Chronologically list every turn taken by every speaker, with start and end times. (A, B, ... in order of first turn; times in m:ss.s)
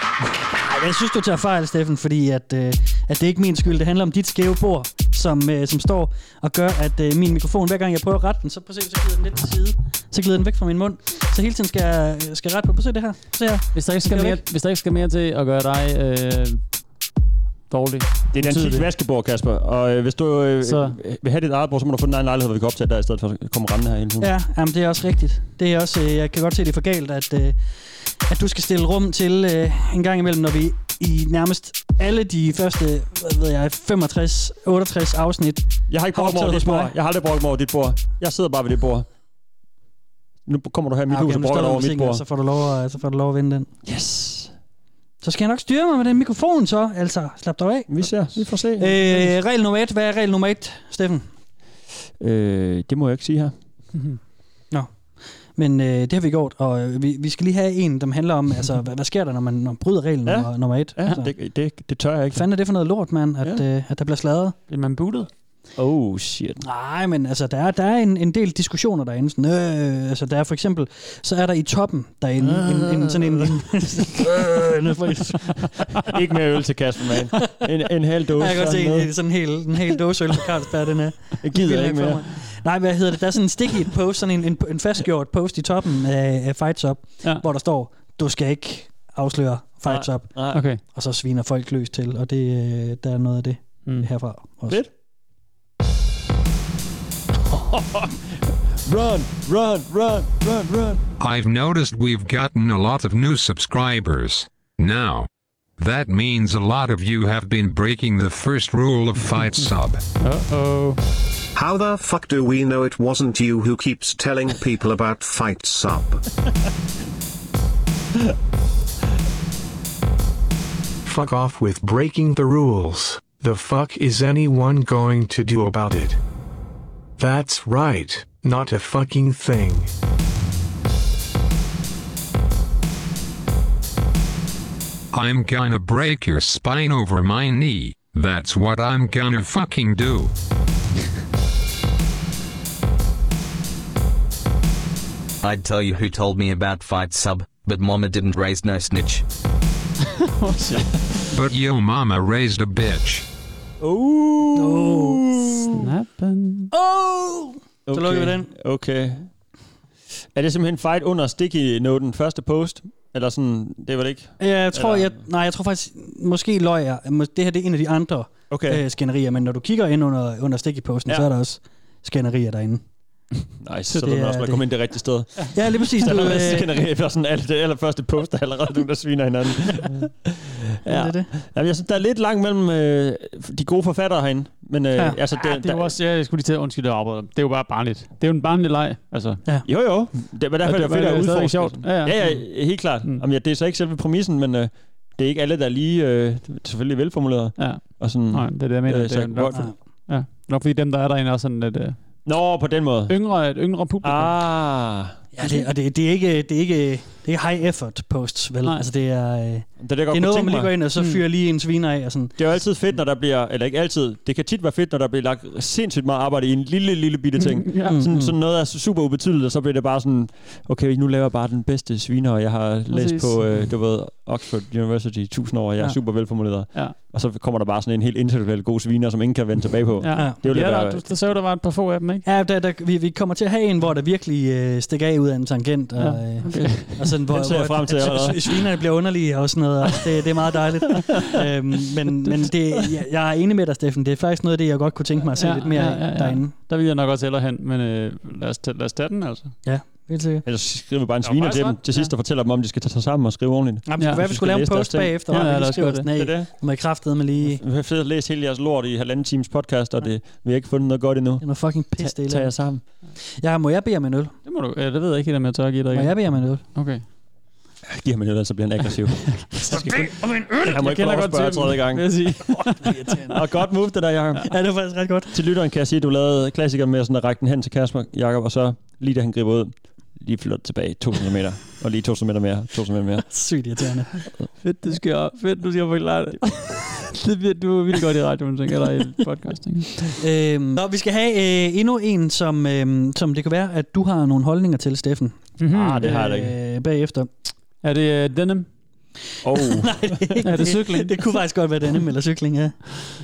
0:00.2-0:14.4 A
0:13.7-0:16.7 B
0:17.7-0:18.9 B
0:18.3-0:24.3 C
0:20.6-0:21.0 B
0:24.2-0:36.9 A
0:35.9-0:39.0 C
0:40.4-0:42.2 C
0:41.1-0:43.7 A
0:43.8-0:44.5 C
0:45.2-0:51.3 A
0:47.9-0:49.3 C
0:52.2-0:53.5 C
0:54.7-1:01.3 A
1:00.2-1:02.4 C
1:02.3-1:04.5 A
1:04.7-1:05.3 B
1:05.8-1:06.6 C
1:06.6-1:15.7 A
1:16.0-1:19.1 C
1:18.3-1:34.8 A
1:21.4-1:22.4 C
1:29.9-1:30.7 C
1:30.5-1:30.8 B
1:33.8-1:34.1 B
1:37.5-1:41.0 C
1:41.2-1:50.0 D
1:50.2-1:51.0 B
1:51.5-1:56.2 E
2:01.0-2:06.2 F
2:07.2-2:09.9 F
2:15.1-2:20.3 D
2:25.4-2:29.2 G
2:30.2-2:30.9 B
2:31.3-2:33.2 D
2:33.8-2:35.7 C
2:34.5-2:35.7 A
2:35.7-2:36.7 B
2:36.7-2:38.5 A
2:37.9-2:39.3 C
2:40.3-2:45.2 C
2:44.4-2:52.8 A
2:48.5-2:48.8 C
2:53.6-3:05.9 C
2:53.9-2:54.7 A
2:55.5-2:56.7 A
3:00.8-3:01.3 A
3:05.3-3:09.4 B
3:09.6-3:19.7 C
3:10.6-3:13.2 B
3:17.6-3:22.1 B
3:22.2-3:23.2 C
3:23.1-3:24.4 B
3:24.0-3:25.2 C
3:25.3-3:32.4 A
3:29.8-3:30.7 C
3:32.4-3:51.3 C
3:37.4-3:38.0 B
3:37.8-3:38.4 A
3:42.9-3:43.7 B
3:50.0-3:52.2 B
3:50.1-3:50.4 A
3:52.2-4:06.5 A
3:56.0-3:57.0 B
3:56.5-3:58.6 C
4:05.4-4:09.5 B
4:09.6-4:10.4 A
4:10.4-4:15.5 C
4:11.2-4:12.1 B
4:13.8-4:17.6 A
4:14.0-4:14.2 B
4:15.3-4:16.1 B
4:16.1-4:16.5 C
4:17.4-4:22.8 C
4:21.4-4:24.3 A
4:24.4-4:27.0 B
4:25.9-4:26.6 A
4:27.9-4:32.3 C
4:29.3-4:33.1 B
4:29.7-4:30.6 A
4:32.7-4:33.5 A
4:33.3-4:34.6 C
4:34.4-4:35.4 A
4:35.3-4:43.3 C
4:43.2-4:44.2 A
4:44.6-4:50.0 B
4:50.2-4:57.3 A
4:55.6-4:56.1 B
4:55.7-4:56.5 C
4:57.8-4:58.7 B
4:59.4-5:00.3 C
4:59.5-5:03.0 A
5:00.4-5:01.2 B